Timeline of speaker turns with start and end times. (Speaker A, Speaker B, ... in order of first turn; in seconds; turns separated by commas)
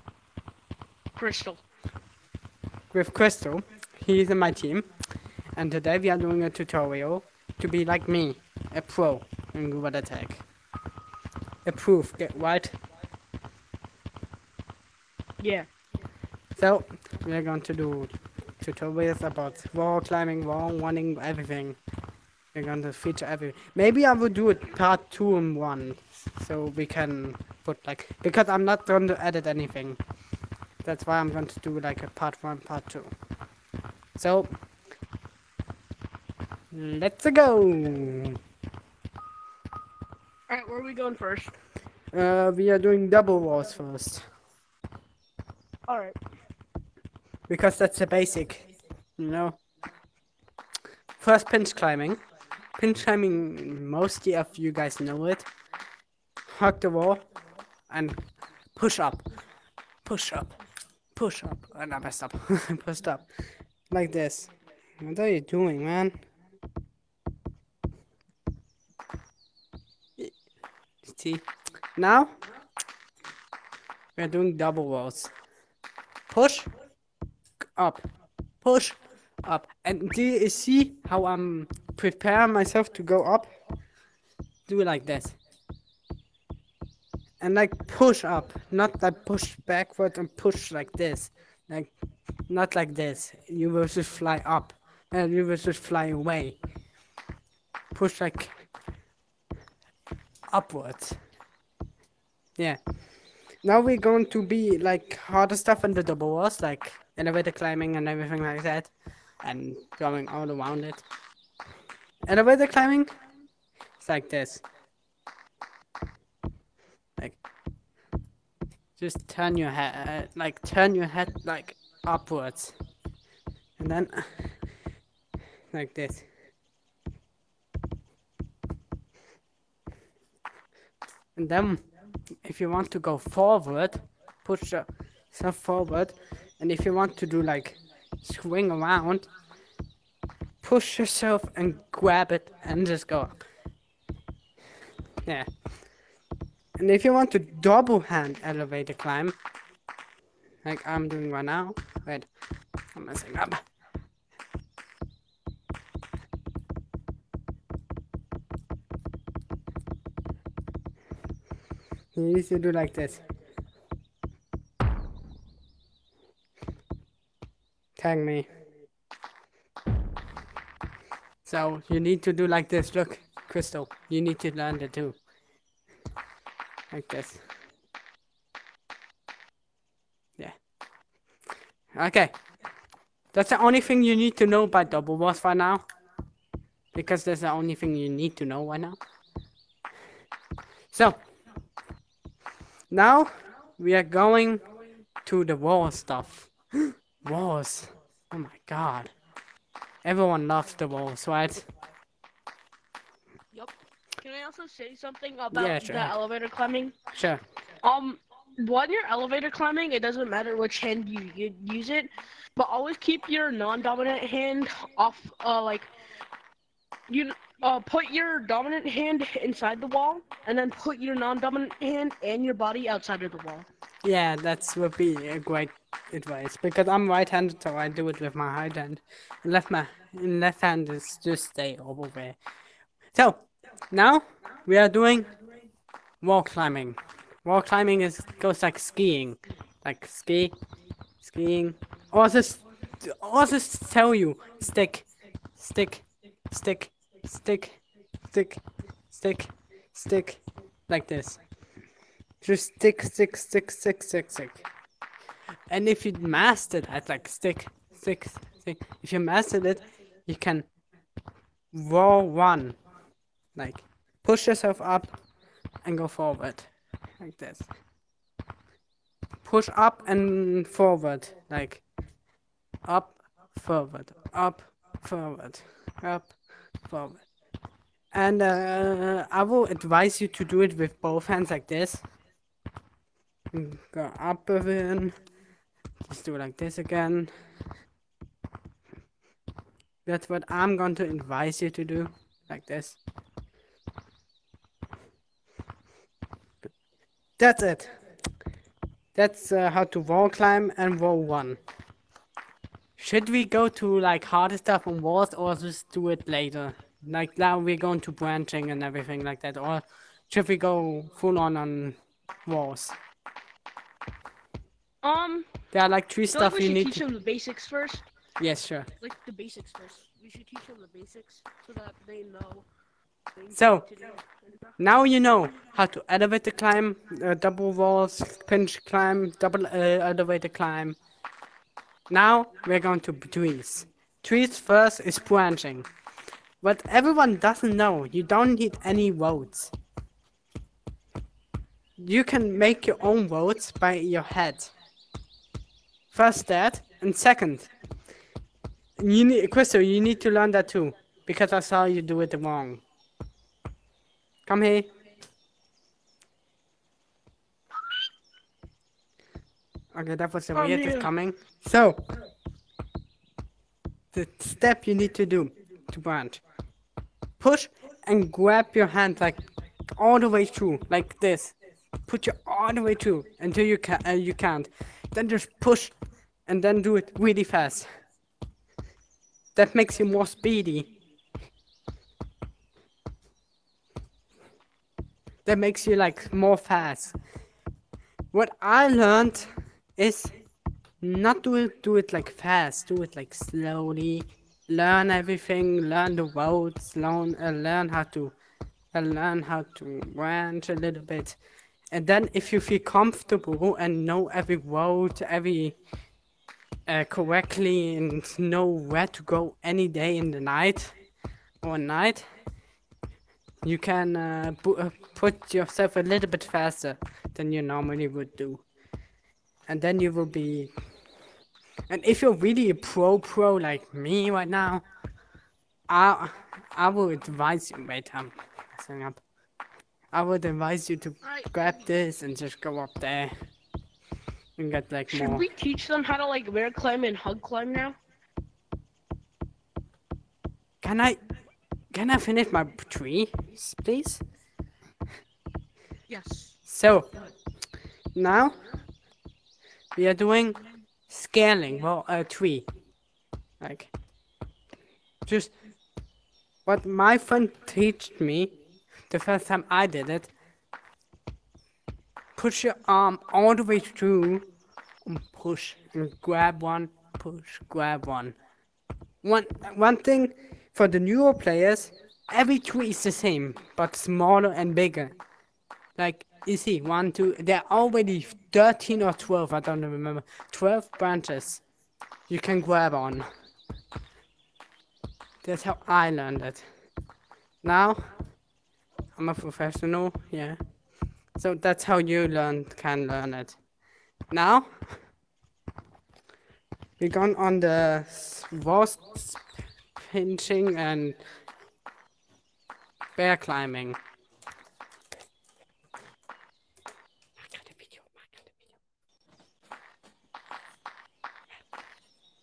Speaker A: 1.1-1.6, Speaker B: 2.9-4.9, Speaker B: 5.5-10.4, Speaker B: 11.6-12.8, Speaker A: 15.4-15.7, Speaker B: 16.6-21.8, Speaker B: 22.5-30.0, Speaker B: 30.8-33.1, Speaker B: 34.1-34.5, Speaker B: 36.7-38.4, Speaker A: 40.5-41.5, Speaker B: 42.1-44.2, Speaker A: 45.9-46.1, Speaker B: 47.5-49.6, Speaker B: 51.2-52.2, Speaker B: 52.8-55.5, Speaker B: 56.5-57.3, Speaker B: 57.9-59.3, Speaker B: 60.0-60.6, Speaker B: 61.1-63.3, Speaker B: 63.9-66.2, Speaker B: 71.0-72.3, Speaker B: 74.2-75.3, Speaker B: 76.3-76.7, Speaker B: 77.8-78.0, Speaker B: 78.6-83.5, Speaker B: 84.7-85.4, Speaker B: 87.4-96.6, Speaker B: 97.9-98.7, Speaker B: 100.5-101.2, Speaker B: 102.6-102.8, Speaker B: 103.6-111.0, Speaker B: 112.2-113.1, Speaker B: 114.0-114.6, Speaker B: 119.0-122.8, Speaker B: 123.8-124.7, Speaker B: 125.7-126.3, Speaker B: 131.3-131.8, Speaker B: 132.4-139.3, Speaker B: 140.6-143.4, Speaker B: 146.8-149.3, Speaker B: 150.6-152.3, Speaker B: 152.9-153.6, Speaker B: 162.1-163.2, Speaker B: 168.0-168.5, Speaker B: 171.4-175.2, Speaker B: 176.9-177.4, Speaker B: 181.9-182.4, Speaker B: 183.3-185.8, Speaker B: 186.9-189.0, Speaker B: 190.9-191.3, Speaker B: 192.9-194.7, Speaker B: 195.2-199.1, Speaker B: 200.0-201.7, Speaker A: 203.5-207.0, Speaker B: 205.5-206.2, Speaker B: 207.1-207.4, Speaker A: 207.8-215.9, Speaker A: 217.1-223.7, Speaker B: 224.0-232.4, Speaker B: 233.1-235.3, Speaker B: 236.2-240.6, Speaker B: 241.2-251.4, Speaker B: 252.4-254.6, Speaker B: 255.7-260.7, Speaker B: 261.7-262.8, Speaker B: 263.5-265.2, Speaker B: 265.8-267.7, Speaker B: 269.4-271.8, Speaker B: 272.8-277.2, Speaker B: 278.1-282.0, Speaker B: 283.5-285.2, Speaker B: 286.0-287.3, Speaker B: 290.1-293.0, Speaker B: 297.4-297.9, Speaker B: 299.1-301.6, Speaker B: 303.0-312.9, Speaker A: 315.0-315.5, Speaker B: 315.7-317.0, Speaker A: 316.3-318.1, Speaker B: 318.4-318.9, Speaker A: 319.0-322.6, Speaker A: 323.4-324.7, Speaker B: 323.5-323.9, Speaker B: 324.8-331.0, Speaker B: 332.1-335.9, Speaker B: 336.6-339.7, Speaker B: 342.0-344.7, Speaker B: 346.1-347.7, Speaker B: 349.0-352.8, Speaker B: 354.4-354.9, Speaker B: 359.9-362.1, Speaker A: 360.5-361.1, Speaker B: 364.1-366.4, Speaker B: 367.4-377.9, Speaker B: 379.5-380.9, Speaker B: 385.4-387.2, Speaker B: 388.3-390.3, Speaker B: 391.0-398.3, Speaker B: 398.9-401.4, Speaker B: 401.9-405.8, Speaker B: 406.9-411.0, Speaker B: 411.6-412.3, Speaker B: 413.6-418.6, Speaker B: 419.7-420.8, Speaker B: 421.9-424.8, Speaker B: 425.9-429.2, Speaker B: 430.1-433.3, Speaker A: 431.2-431.7, Speaker B: 434.6-435.4, Speaker A: 435.1-438.0, Speaker B: 440.8-441.2, Speaker B: 441.9-444.2, Speaker A: 446.1-446.6, Speaker B: 446.6-447.1, Speaker B: 448.1-448.6, Speaker B: 449.9-452.7, Speaker B: 453.6-453.9, Speaker B: 455.2-455.5, Speaker B: 456.6-458.5, Speaker B: 459.1-460.3, Speaker B: 462.4-464.5, Speaker B: 465.0-468.4, Speaker B: 469.2-475.2, Speaker B: 475.9-481.6, Speaker B: 482.3-483.3, Speaker B: 485.4-486.6, Speaker B: 487.6-488.2, Speaker B: 489.1-490.6, Speaker B: 491.3-493.6, Speaker B: 494.3-495.0, Speaker B: 497.0-501.2, Speaker B: 503.1-504.0, Speaker B: 507.4-508.6